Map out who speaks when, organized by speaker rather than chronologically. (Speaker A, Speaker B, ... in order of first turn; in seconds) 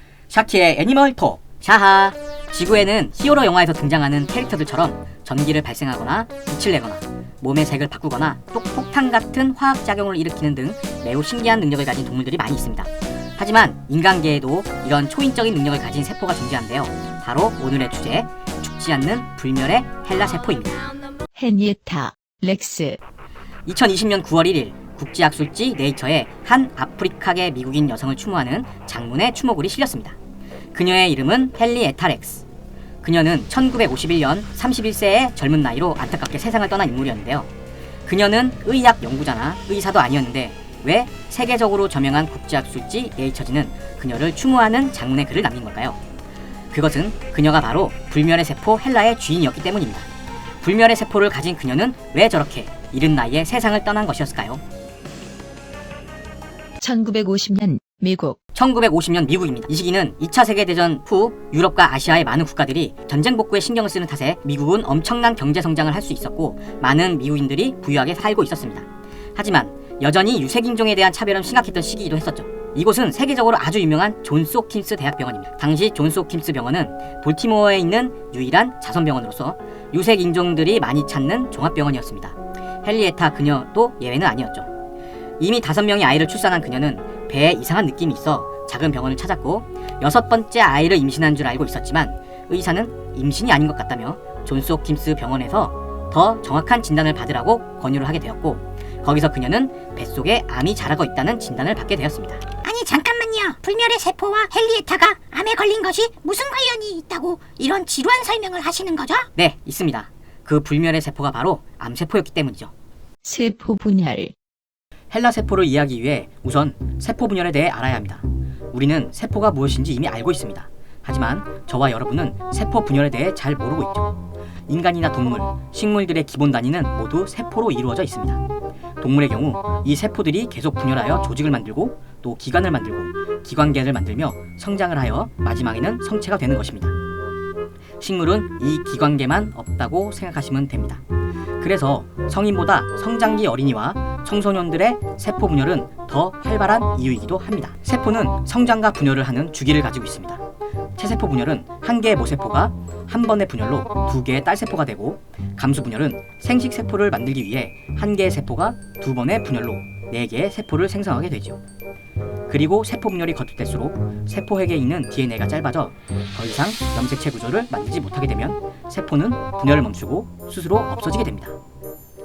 Speaker A: 0.3-20.9, 23.6-30.2, 30.7-32.5, 33.0-37.5, 38.0-46.0, 46.7-50.1, 50.6-54.6, 58.5-84.7, 85.4-102.4, 109.3-112.7, 115.1-128.4, 129.0-136.9, 138.0-141.0, 141.6-150.4, 151.0-161.6, 162.5-171.6
Speaker B: 21.3-23.0, 56.8-58.4, 113.2-114.3
Speaker C: 102.6-109.3